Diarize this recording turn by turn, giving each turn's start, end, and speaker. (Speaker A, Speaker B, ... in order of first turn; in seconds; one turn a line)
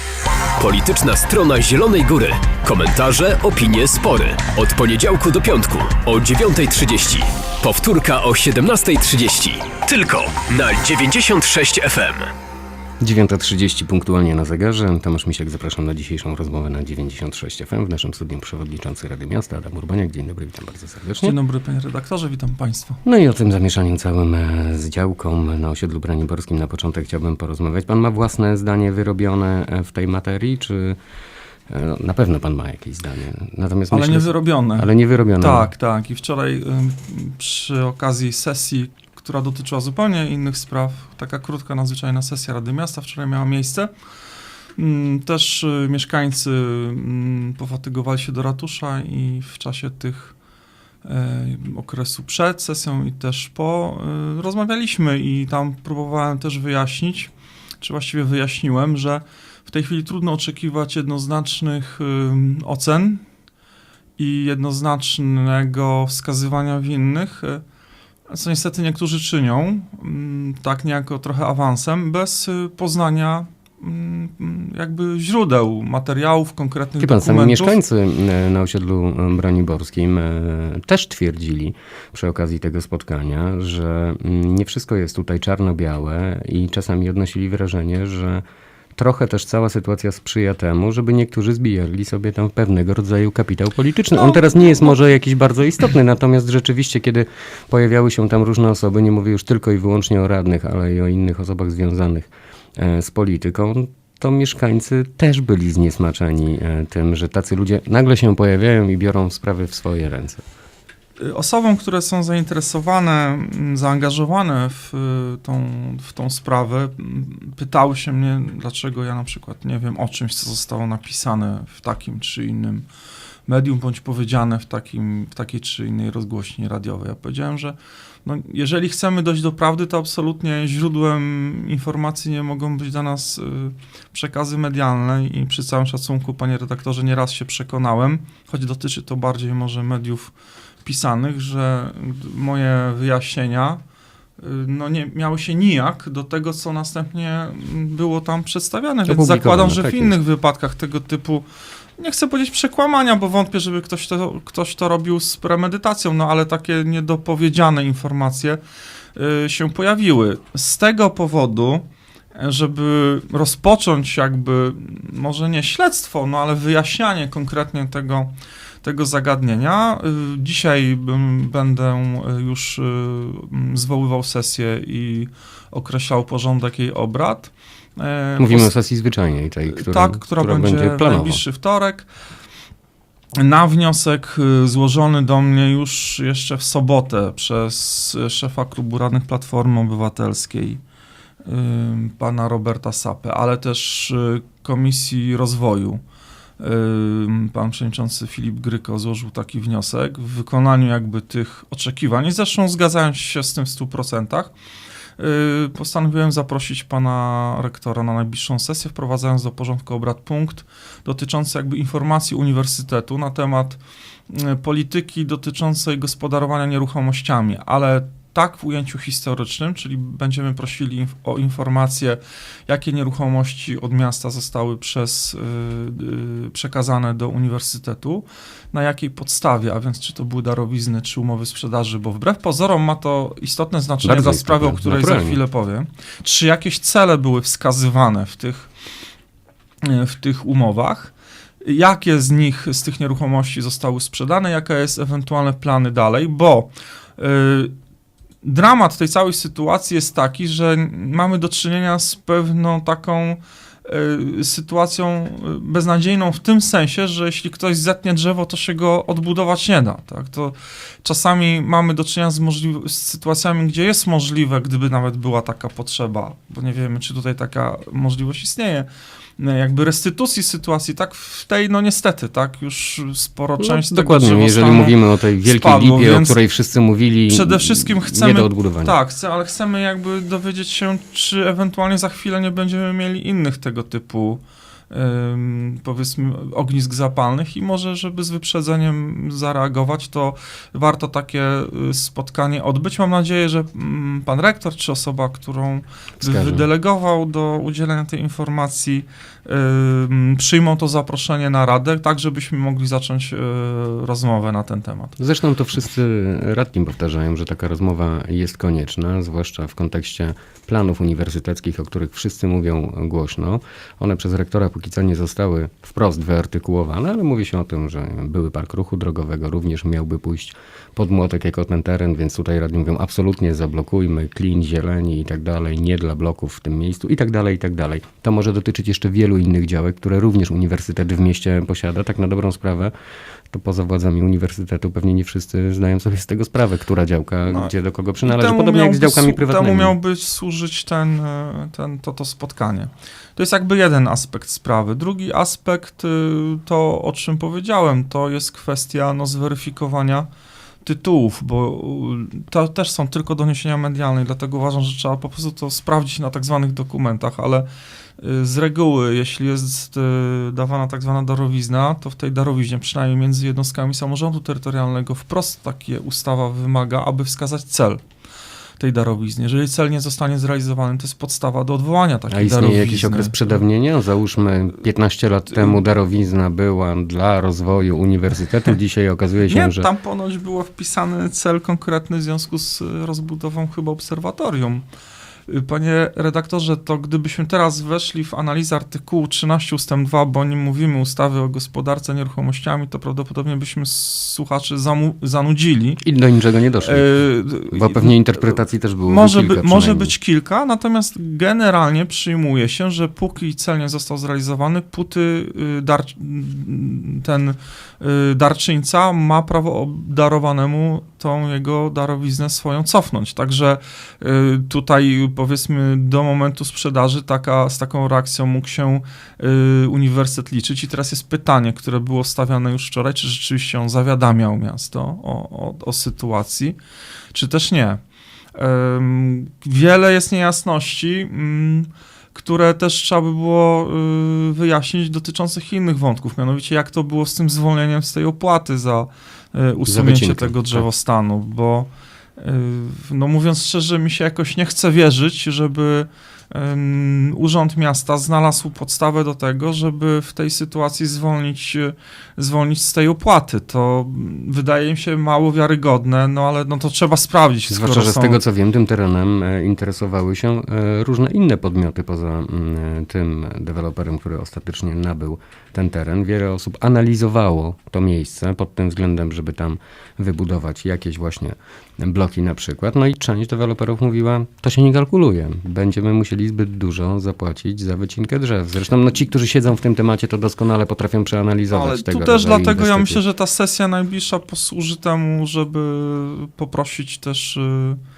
Speaker A: 0.6-12.3
Speaker B: 13.0-21.4
Speaker C: 21.2-23.0
Speaker B: 23.0-31.0
Speaker B: 31.7-35.7
Speaker C: 33.9-43.9
Speaker C: 44.8-50.4
Speaker C: 51.0-63.2
Speaker C: 64.2-67.6
Speaker C: 68.3-77.8
Speaker B: 77.0-88.4
Speaker B: 89.0-110.4
Speaker C: 111.2-122.9
Speaker C: 123.5-140.3
Speaker C: 140.8-143.8
Speaker C: 144.4-151.5
Speaker B: 149.1-150.2
Speaker C: 152.0-158.6
Speaker C: 159.2-161.8
Speaker C: 162.4-168.3
Speaker C: 168.8-178.7
Speaker B: 178.4-181.4
Speaker C: 179.7-182.1
Speaker C: 183.4-190.8
Speaker C: 191.4-196.0
Speaker C: 196.6-204.5
Speaker C: 205.2-238.7
Speaker B: 234.0-235.4
Speaker C: 239.8-241.1
Speaker C: 241.6-247.7
Speaker C: 248.4-268.9
Speaker C: 269.4-276.4
Speaker B: 273.6-279.0
Speaker C: 277.3-305.2
Speaker B: 296.2-296.7
Speaker B: 305.2-332.9
Speaker B: 333.5-340.0
Speaker C: 338.2-350.3
Speaker C: 350.8-357.7
Speaker C: 358.2-368.0
Speaker C: 368.8-373.6
Speaker B: 372.3-379.9
Speaker C: 379.5-384.9
Speaker C: 385.5-396.0
Speaker B: 396.0-400.1
Speaker C: 396.8-398.5
Speaker C: 399.1-426.8
Speaker C: 427.3-428.0
Speaker C: 428.6-458.4
Speaker B: 439.9-440.9
Speaker B: 457.7-483.2
Speaker C: 481.7-488.0